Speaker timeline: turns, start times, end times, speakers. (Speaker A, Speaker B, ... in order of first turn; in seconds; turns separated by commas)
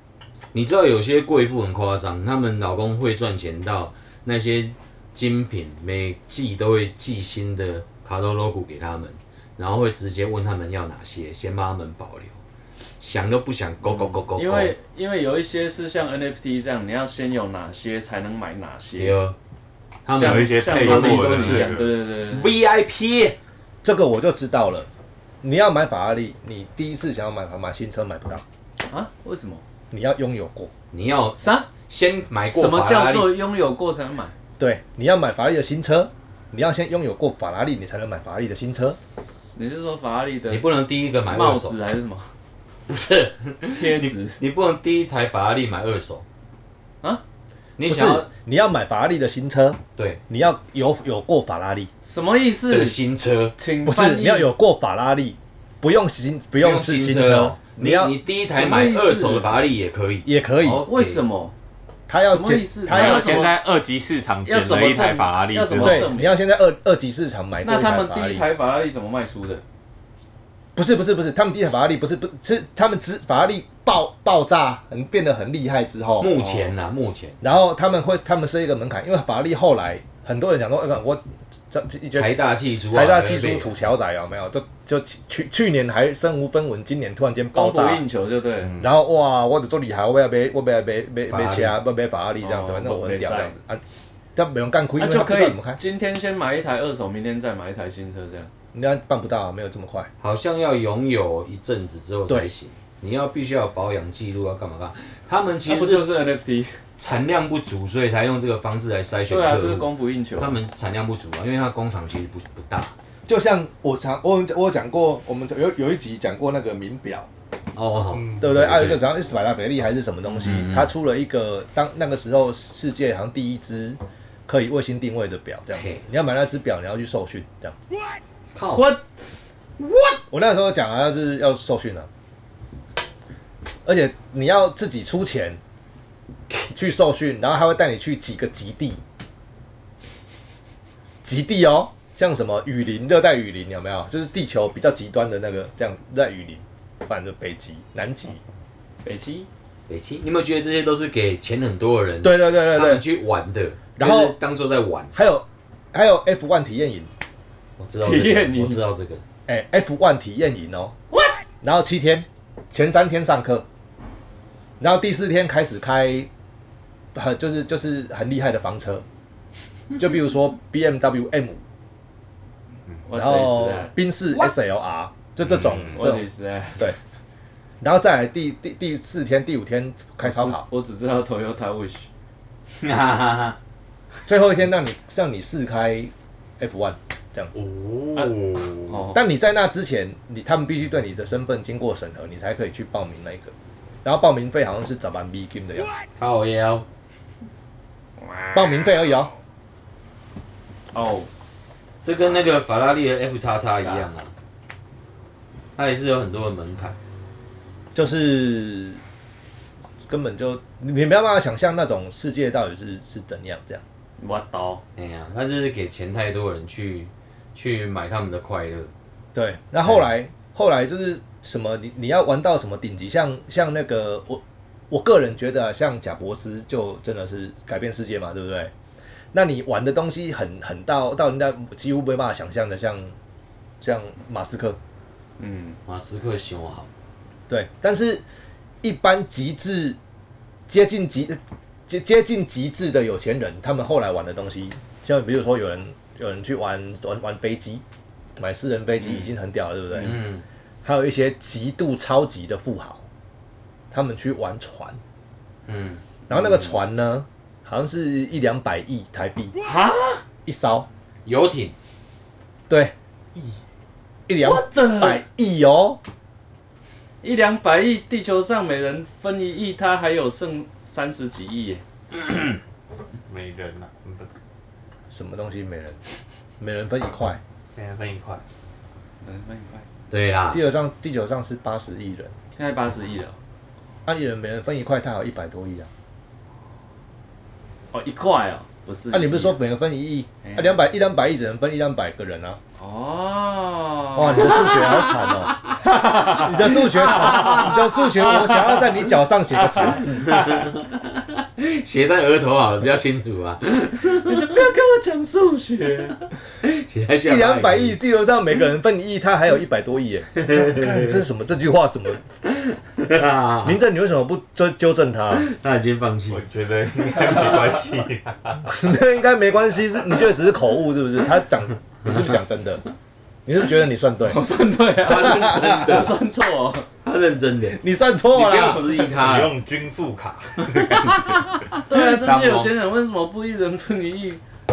Speaker A: 0.5-12.4, Speaker A: 13.0-14.7, Speaker B: 14.4-19.2, Speaker A: 19.0-19.4, Speaker A: 20.1-23.4, Speaker C: 20.1-21.9, Speaker B: 20.1-22.5, Speaker D: 23.8-24.9, Speaker D: 25.4-28.4, Speaker B: 28.9-29.6, Speaker D: 29.9-30.7, Speaker A: 30.9-33.4, Speaker B: 31.4-31.7, Speaker B: 32.5-34.3, Speaker D: 34.6-39.0, Speaker B: 39.5-40.7, Speaker A: 40.5-41.8, Speaker B: 41.3-42.3, Speaker A: 42.9-46.2, Speaker B: 43.7-44.4, Speaker A: 47.8-48.3, Speaker D: 47.9-51.9, Speaker B: 52.0-53.0, Speaker A: 52.7-53.5, Speaker B: 53.6-54.5, Speaker D: 53.8-58.1, Speaker A: 56.6-61.2, Speaker B: 58.5-59.7, Speaker D: 60.2-60.8, Speaker B: 60.9-61.5, Speaker D: 62.1-63.5, Speaker B: 62.2-63.5, Speaker C: 62.9-66.1, Speaker B: 64.5-66.4, Speaker D: 65.8-68.5, Speaker B: 67.6-69.6, Speaker D: 70.8-76.3, Speaker A: 76.2-77.4, Speaker B: 76.3-76.7, Speaker D: 77.4-82.3, Speaker A: 82.1-83.7, Speaker D: 82.9-88.0, Speaker B: 87.5-88.8, Speaker D: 88.8-93.8, Speaker A: 91.3-91.8, Speaker B: 92.4-93.5, Speaker D: 94.3-95.8, Speaker B: 95.0-98.5, Speaker D: 98.7-100.1, Speaker A: 100.2-106.1, Speaker B: 105.7-106.8, Speaker A: 107.0-112.9, Speaker B: 109.3-110.6, Speaker D: 113.3-117.3, Speaker A: 117.8-119.0, Speaker C: 118.1-118.6, Speaker D: 118.4-127.8, Speaker A: 120.4-120.9, Speaker A: 125.8-126.0, Speaker A: 128.6-128.9, Speaker B: 128.7-129.2, Speaker A: 129.8-130.2, Speaker D: 130.3-132.1, Speaker D: 133.8-135.6, Speaker D: 136.7-139.0, Speaker D: 141.2-148.4, Speaker B: 149.0-149.5, Speaker A: 149.9-155.1, Speaker D: 152.2-153.0, Speaker D: 154.0-154.4, Speaker D: 155.1-157.1, Speaker A: 157.8-159.2, Speaker B: 158.0-158.8, Speaker D: 159.5-161.0, Speaker D: 161.6-163.7, Speaker D: 164.8-166.3, Speaker D: 167.1-169.1, Speaker D: 169.9-171.6, Speaker B: 173.1-173.9, Speaker D: 173.1-176.3, Speaker B: 175.9-176.9, Speaker D: 177.8-180.7, Speaker B: 180.2-182.1, Speaker A: 182.8-183.6, Speaker D: 184.3-187.6, Speaker C: 187.5-189.0, Speaker B: 188.2-189.2, Speaker D: 189.1-193.5, Speaker D: 194.0-195.9, Speaker A: 196.2-196.8, Speaker B: 198.2-199.3, Speaker D: 198.5-199.3, Speaker B: 200.9-201.3, Speaker A: 202.0-204.3, Speaker A: 205.8-207.0, Speaker D: 207.9-209.0, Speaker D: 210.1-213.8, Speaker B: 214.2-214.8, Speaker A: 215.0-218.9, Speaker D: 219.3-228.7, Speaker D: 229.3-233.2, Speaker D: 233.8-234.8, Speaker B: 235.4-235.8, Speaker A: 235.9-236.9, Speaker D: 237.5-238.2, Speaker D: 238.8-240.0, Speaker D: 240.7-247.8, Speaker D: 248.4-250.2, Speaker A: 249.9-250.4, Speaker D: 250.8-253.0, Speaker D: 253.9-255.0, Speaker A: 255.7-256.0, Speaker D: 256.3-259.6, Speaker B: 259.6-260.2, Speaker D: 260.5-260.9, Speaker A: 261.2-261.7, Speaker D: 262.7-263.6, Speaker D: 264.3-266.0, Speaker B: 264.4-265.2, Speaker B: 267.2-271.8, Speaker C: 273.3-274.3, Speaker D: 275.1-276.0, Speaker D: 276.6-277.4, Speaker C: 277.8-278.4, Speaker B: 279.2-279.9, Speaker A: 280.1-280.6, Speaker D: 280.5-282.3, Speaker B: 282.6-283.4, Speaker D: 284.1-285.9, Speaker B: 287.9-289.6, Speaker D: 289.1-292.6, Speaker B: 290.4-290.8, Speaker B: 292.8-294.8, Speaker D: 294.1-295.6, Speaker B: 295.8-298.9, Speaker D: 296.2-300.4, Speaker B: 299.6-300.7, Speaker A: 300.3-304.5, Speaker B: 304.0-306.2, Speaker A: 306.6-308.0, Speaker D: 307.2-312.2, Speaker A: 310.4-311.2, Speaker A: 312.4-313.8, Speaker D: 313.6-315.4, Speaker A: 315.3-316.4, Speaker C: 316.3-318.7, Speaker D: 318.7-322.8, Speaker D: 323.5-324.4, Speaker B: 324.2-326.9, Speaker A: 325.0-326.1, Speaker D: 325.1-326.1, Speaker A: 327.0-327.8, Speaker D: 327.7-329.1, Speaker A: 328.3-329.6, Speaker C: 329.1-331.4, Speaker A: 330.8-332.7, Speaker B: 331.9-334.4